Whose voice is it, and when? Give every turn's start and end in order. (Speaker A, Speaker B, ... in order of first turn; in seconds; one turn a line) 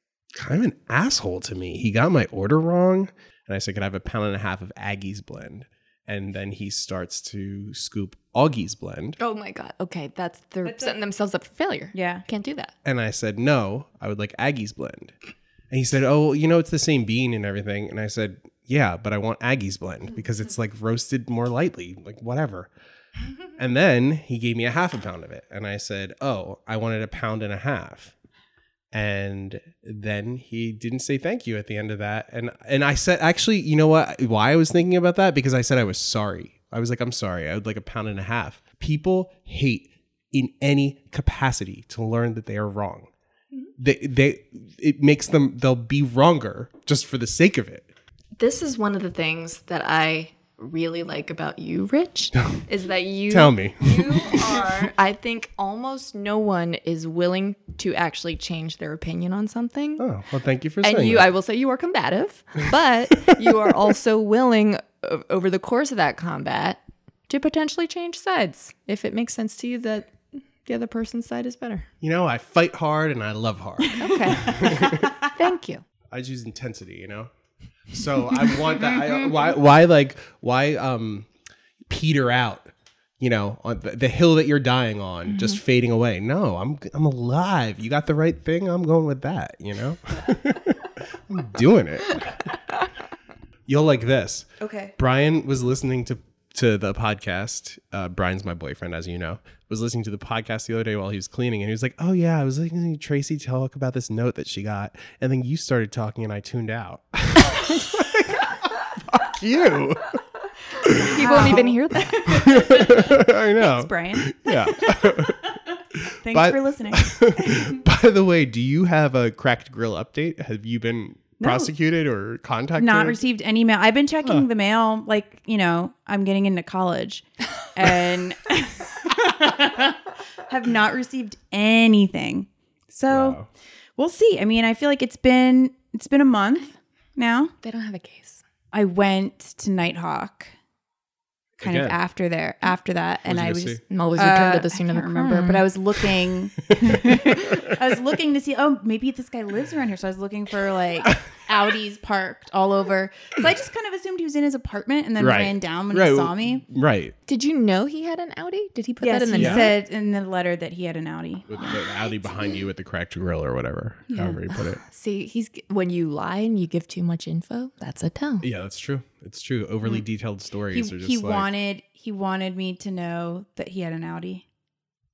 Speaker A: 0.3-9.2
Speaker B: 9.2-12.7
Speaker C: 10.6-11.0
Speaker C: 11.9-12.2
Speaker A: 12.8-15.1
Speaker A: 15.7-22.7
Speaker A: 23.6-28.1
Speaker A: 28.9-43.1
Speaker A: 43.8-47.9
Speaker B: 48.4-60.0
Speaker A: 53.3-54.4
Speaker A: 60.0-61.3
Speaker B: 60.8-71.9
Speaker A: 63.2-63.8
Speaker A: 72.0-75.2
Speaker C: 73.8-75.3
Speaker B: 73.9-75.8
Speaker A: 76.1-77.3
Speaker A: 77.9-81.3
Speaker A: 81.9-92.5
Speaker B: 85.3-85.6
Speaker A: 93.7-110.2
Speaker C: 94.6-94.9
Speaker A: 110.8-111.7
Speaker B: 110.9-112.5
Speaker C: 110.9-114.3
Speaker A: 112.2-123.2
Speaker C: 116.2-117.8
Speaker C: 121.4-121.7
Speaker C: 122.8-133.4
Speaker A: 133.1-133.5
Speaker C: 134.0-137.5
Speaker B: 137.6-138.4
Speaker C: 138.7-140.5
Speaker A: 141.6-142.0
Speaker C: 141.6-156.6
Speaker A: 143.2-143.8
Speaker B: 143.9-145.7
Speaker A: 146.6-147.8
Speaker A: 155.2-157.1
Speaker B: 157.3-159.8
Speaker C: 159.0-161.5
Speaker A: 159.4-159.7
Speaker A: 161.5-164.8
Speaker C: 164.1-164.4
Speaker B: 164.8-168.4
Speaker A: 168.4-171.5
Speaker C: 170.7-174.4